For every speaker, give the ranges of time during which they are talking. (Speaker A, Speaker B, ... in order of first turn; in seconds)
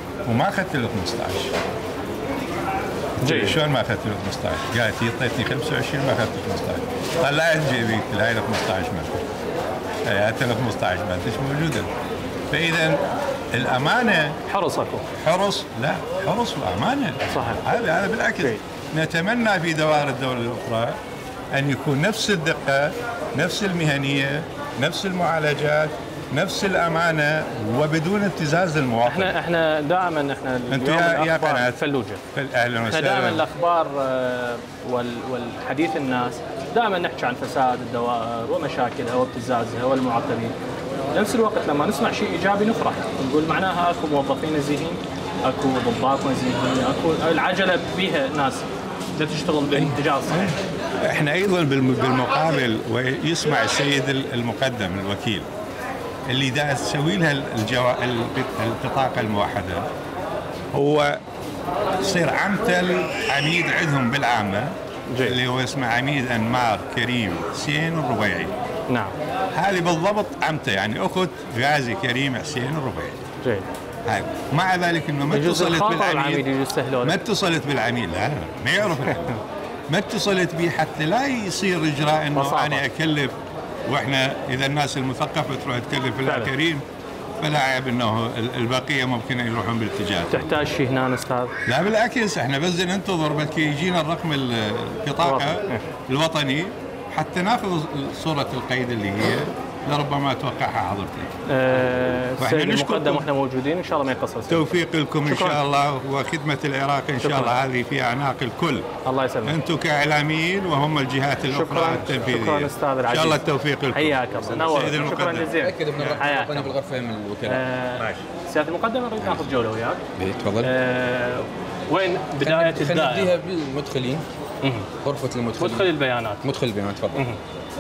Speaker A: 0.3-1.6, 3.2-9.2, 10.1-11.9, 12.5-13.0, 13.5-14.3, 15.2-21.0, 21.5-29.3, 30.7-31.8, 32.4-33.4, 49.7-50.5, 51.0-55.5, 56.3-59.9, 60.7-61.2, 62.0-68.5, 69.5-73.3, 74.1-76.5, 77.0-79.4, 79.9-83.3, 83.9-86.8, 87.4-90.5, 91.7-101.3, 102.4-103.2, 104.5-108.9, 109.5-116.2, 118.0-118.2
Speaker B: 3.2-3.6, 14.5-15.1, 17.3-17.6, 29.1-32.2, 32.9-40.5, 41.1-48.7, 49.2-50.6, 65.1-65.4, 68.9-69.2, 73.4-73.7, 75.3-77.2, 82.3-82.8, 86.2-86.5, 90.3-91.5, 95.2-95.8, 101.5-105.6, 107.2-107.6, 109.1-109.6, 111.5-116.8, 117.5-120.0, 120.6-123.3, 124.6-124.9, 125.6-126.4
Speaker C: 114.5-117.6, 120.2-120.7, 122.4-124.2, 125.0-125.9, 126.4-127.2